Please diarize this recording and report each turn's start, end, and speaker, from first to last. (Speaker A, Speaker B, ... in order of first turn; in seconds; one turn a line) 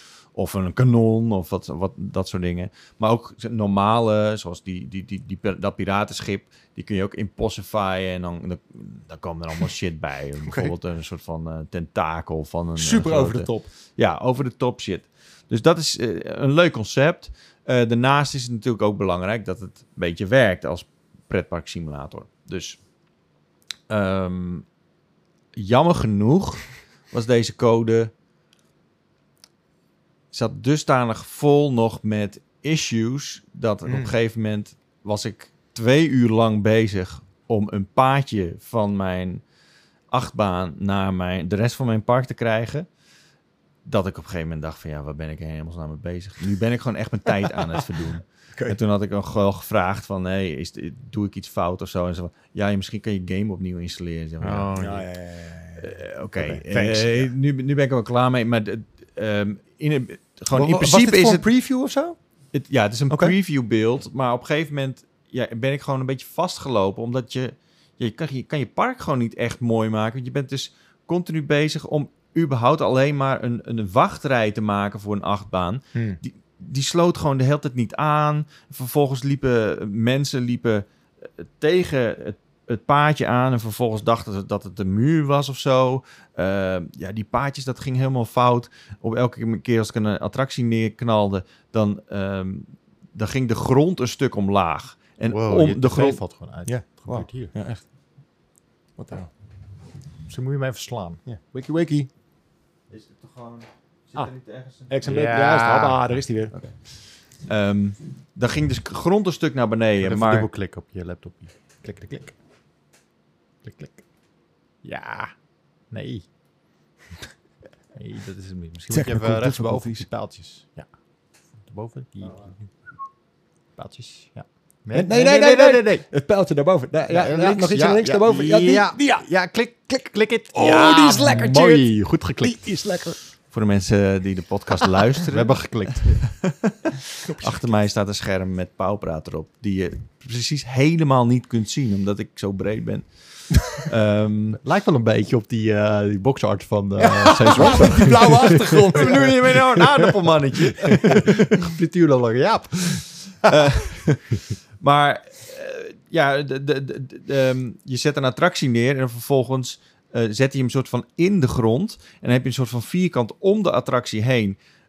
Speaker A: 0.3-22.8
Speaker B: 10.4-10.7
Speaker B: 12.8-13.7
Speaker A: 23.9-24.6
Speaker A: 25.5-28.1
Speaker A: 30.3-39.4
Speaker B: 33.9-34.1
Speaker A: 40.1-42.9
Speaker A: 43.9-54.7
Speaker C: 54.4-55.0
Speaker B: 54.8-57.3
Speaker A: 55.8-61.4
Speaker B: 60.5-62.1
Speaker A: 62.5-96.2
Speaker B: 63.1-63.3
Speaker B: 75.9-76.2
Speaker C: 95.3-97.5
Speaker B: 96.7-97.8
Speaker B: 99.0-99.3
Speaker C: 100.3-101.2
Speaker B: 101.2-102.1
Speaker A: 102.9-104.9
Speaker B: 104.9-106.5
Speaker C: 105.0-106.1
Speaker A: 106.5-110.5
Speaker C: 110.0-112.3
Speaker C: 113.6-114.0
Speaker C: 114.8-115.3
Speaker C: 115.9-116.2
Speaker C: 117.9-120.8
Speaker B: 118.9-120.1
Speaker C: 121.7-122.7
Speaker C: 123.8-126.0
Speaker B: 124.9-129.2
Speaker C: 127.1-132.7
Speaker B: 130.5-133.2
Speaker A: 130.7-131.2
Speaker A: 133.5-144.6
Speaker C: 135.2-136.2
Speaker B: 137.2-137.8
Speaker C: 144.6-149.1
Speaker B: 147.0-149.8
Speaker A: 148.9-151.3
Speaker C: 150.8-153.1
Speaker A: 153.4-164.6